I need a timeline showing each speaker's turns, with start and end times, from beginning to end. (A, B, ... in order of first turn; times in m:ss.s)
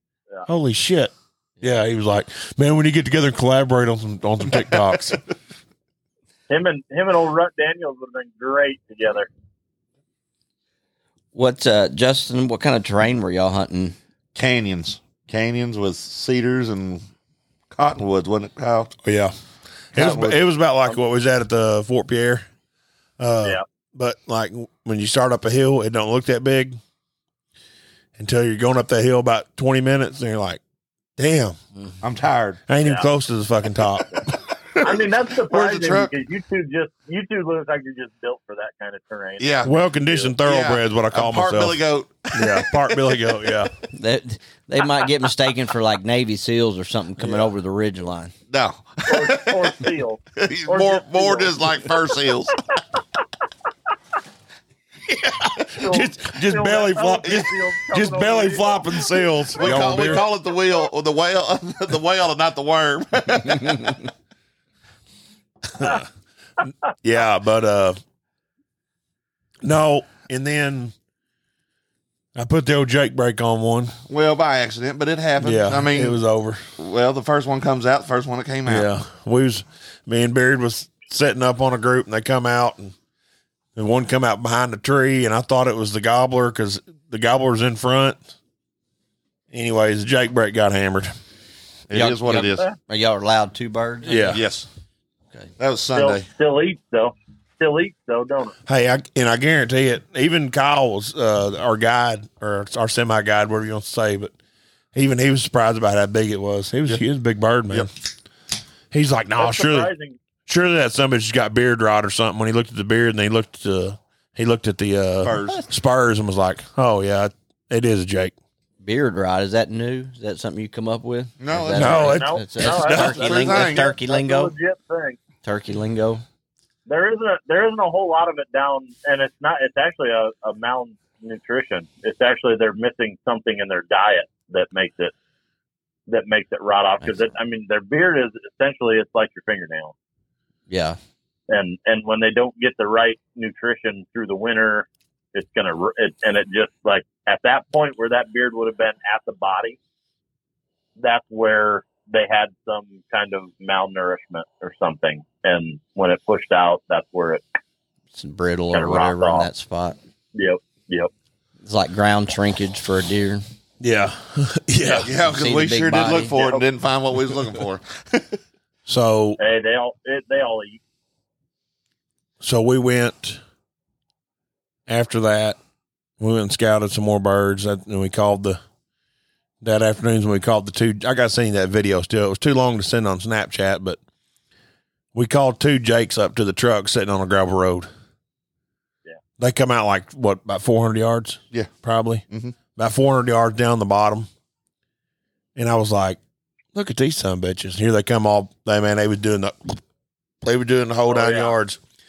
0:00.5-0:05.2 A
0:06.5-0:09.3 B
0:11.3-0:14.0 C
0:14.4-0:17.0 D
0:17.7-0:18.9 D
0:19.0-0:19.3 A
0:19.9-0:20.4 D
0:19.9-0:22.5 A
0:23.2-0:26.8 A
0:28.2-0:30.6 A
0:31.2-0:31.6 A
0:32.0-0:32.6 D
0:32.7-0:34.2 A
0:34.8-0:36.1 D
0:34.8-0:40.4 B
0:39.4-0:39.7 D
0:39.6-0:41.8 A
0:40.4-0:43.4 D
0:42.3-0:43.7 A
0:43.9-0:48.3 C
0:47.2-0:47.5 A
0:48.5-0:49.8 D
0:49.1-0:52.0 B
0:50.4-0:52.6 D
0:55.2-1:00.3 A
0:55.8-0:59.8 B
0:59.6-1:04.0 D
1:05.8-1:06.0 A
1:07.0-1:08.0 A
1:09.6-1:10.9 A
1:12.4-1:14.0 A
1:14.1-1:16.2 D
1:15.4-1:16.6 A
1:16.8-1:18.9 D
1:18.7-1:23.0 A
1:23.8-1:28.3 A
1:29.5-1:31.1 A
1:31.9-1:32.7 D
1:31.9-1:34.4 C
1:34.1-1:34.4 A
1:34.3-1:34.7 D
1:35.6-1:36.3 D
1:35.9-1:38.6 B
1:38.7-1:44.3 A
1:44.9-1:47.9 A
1:48.9-1:49.9 A
1:49.4-1:50.2 B
1:50.5-1:58.3 A
1:55.2-1:55.6 D
1:58.8-2:04.5 C
2:01.4-2:02.2 D
2:01.8-2:03.2 A
2:02.0-2:05.2 B
2:03.0-2:03.9 D
2:05.4-2:06.2 C
2:06.9-2:15.1 B
2:16.1-2:19.9 B
2:17.0-2:17.3 C
2:20.7-2:21.0 C
2:21.5-2:29.8 B
2:31.0-2:37.4 B
2:38.1-2:40.0 C
2:38.7-2:39.5 B
2:40.4-2:41.1 B
2:41.6-2:43.4 C
2:43.8-2:45.1 A
2:45.0-2:48.4 D
2:45.0-2:46.4 C
2:48.9-2:49.4 A
2:49.4-2:50.8 B
2:52.4-2:53.4 A
2:54.9-2:55.6 A
2:56.2-2:58.6 A
2:59.6-3:04.0 A
3:05.1-3:07.9 A
3:09.4-3:14.3 A
3:12.3-3:12.6 D
3:15.6-3:16.2 A
3:16.7-3:19.8 A
3:20.4-3:21.8 A
3:21.1-3:21.6 B